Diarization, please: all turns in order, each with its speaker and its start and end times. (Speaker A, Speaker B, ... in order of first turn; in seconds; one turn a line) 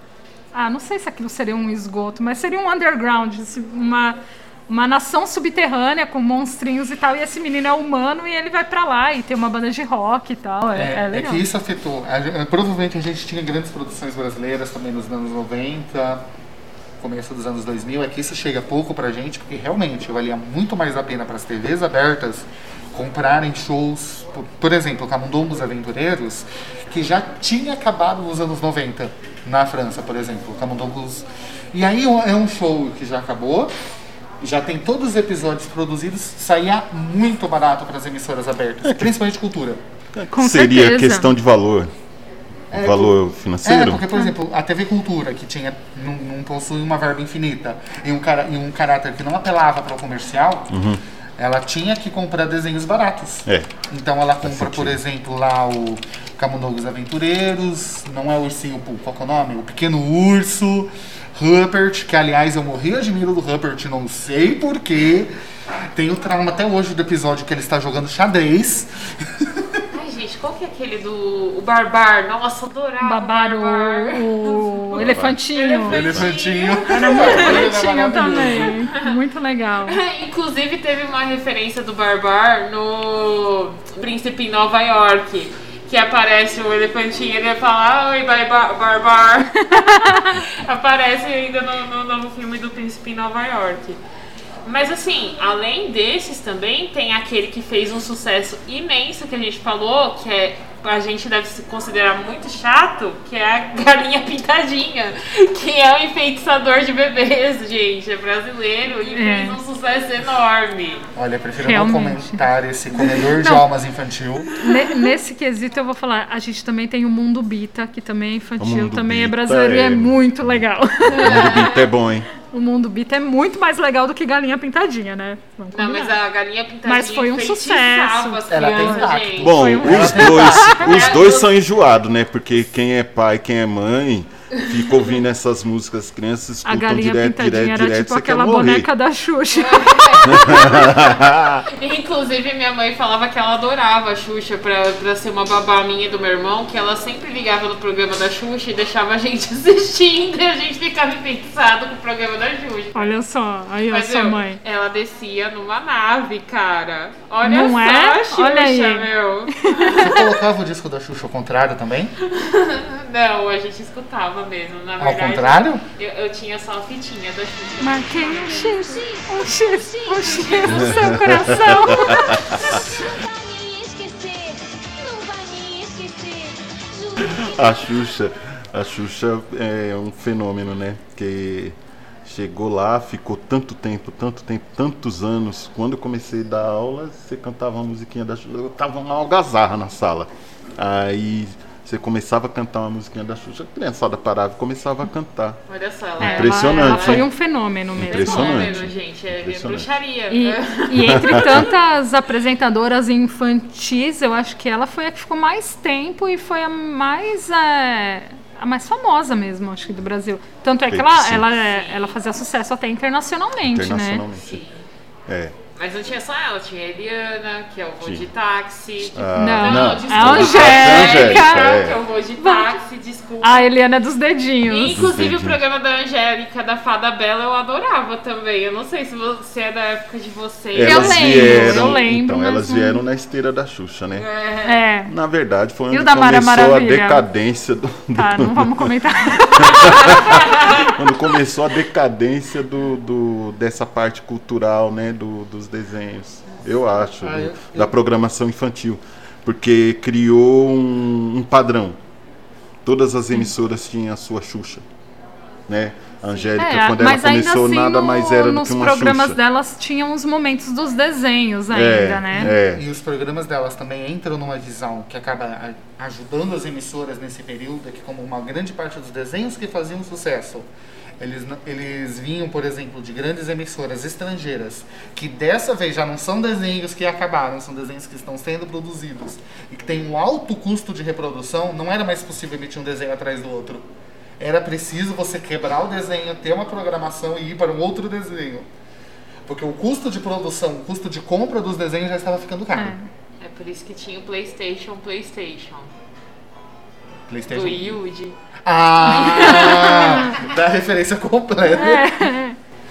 Speaker A: 0.5-4.2
Speaker A: 4.7-11.4
Speaker B: 10.7-16.2
Speaker B: 17.0-33.7
Speaker B: 34.4-39.8
Speaker C: 40.1-41.9
Speaker A: 40.3-41.3
Speaker C: 42.7-44.1
Speaker B: 42.7-50.8
Speaker C: 50.7-51.0
Speaker B: 51.4-65.3
Speaker C: 54.4-55.0
Speaker B: 65.9-69.8
Speaker D: 69.9-77.7
Speaker A: 73.0-76.0
Speaker C: 74.9-76.3
Speaker B: 75.8-78.8
Speaker A: 76.9-80.0
Speaker D: 78.2-79.0
Speaker D: 79.9-94.0
Speaker A: 89.7-90.3
Speaker D: 94.6-111.1
Speaker A: 109.1-109.6
Speaker B: 111.1-114.5
Speaker A: 111.6-112.4
Speaker A: 113.3-113.6
Speaker A: 114.6-121.7
Speaker D: 114.6-115.0
Speaker C: 118.6-120.6
Speaker D: 121.1-121.9
Speaker C: 121.2-122.3
Speaker A: 122.4-126.2
Speaker D: 125.7-131.5
Speaker A: 126.8-131.1
Speaker B: 128.5-130.8
Speaker C: 129.4-138.9
Speaker A: 136.6-140.6
Speaker D: 139.5-153.2
Speaker C: 140.3-141.6
Speaker A: 152.9-154.6
Speaker D: 153.9-160.3
Speaker A: 157.4-159.1
Speaker A: 159.6-160.2
Speaker B: 159.9-162.1
Speaker D: 162.2-168.8
Speaker B: 165.0-165.8
Speaker A: 167.8-172.7
Speaker E: 168.2-171.7
Speaker D: 170.3-170.9
Speaker C: 171.1-172.8
Speaker E: 172.8-177.9
Speaker C: 177.2-195.6
Speaker D: 195.7-197.3
Speaker C: 196.2-197.3
Speaker A: 196.2-198.7
Speaker C: 197.9-199.9
Speaker D: 198.1-201.7
Speaker A: 200.3-214.2
Speaker C: 201.0-201.7
Speaker C: 210.9-211.5
Speaker D: 211.6-212.2
Speaker C: 213.6-214.6
Speaker D: 214.3-214.8
Speaker C: 215.3-215.5
Speaker D: 215.8-223.7
Speaker C: 218.0-218.3
Speaker C: 219.1-222.0
Speaker A: 219.4-221.7
Speaker A: 222.4-222.8
Speaker A: 223.4-225.1
Speaker D: 224.7-232.0
Speaker C: 224.8-225.6
Speaker C: 230.7-234.3
Speaker A: 230.8-233.0
Speaker D: 234.1-234.8
Speaker A: 234.6-235.1
Speaker C: 235.1-252.0
Speaker A: 235.9-237.2
Speaker A: 238.1-240.3
Speaker D: 240.5-240.9
Speaker B: 247.3-247.6
Speaker C: 252.8-254.8
Speaker C: 255.7-259.4
Speaker A: 256.6-262.5
Speaker C: 261.7-262.8
Speaker B: 262.4-270.7
Speaker B: 271.2-283.9
Speaker B: 284.4-288.7
Speaker B: 289.4-293.0
Speaker A: 292.7-293.1
Speaker D: 293.4-295.9
Speaker B: 297.3-298.0
Speaker D: 297.5-298.4
Speaker B: 298.6-302.3
Speaker D: 299.3-299.7
Speaker A: 299.4-300.3
Speaker A: 301.7-302.6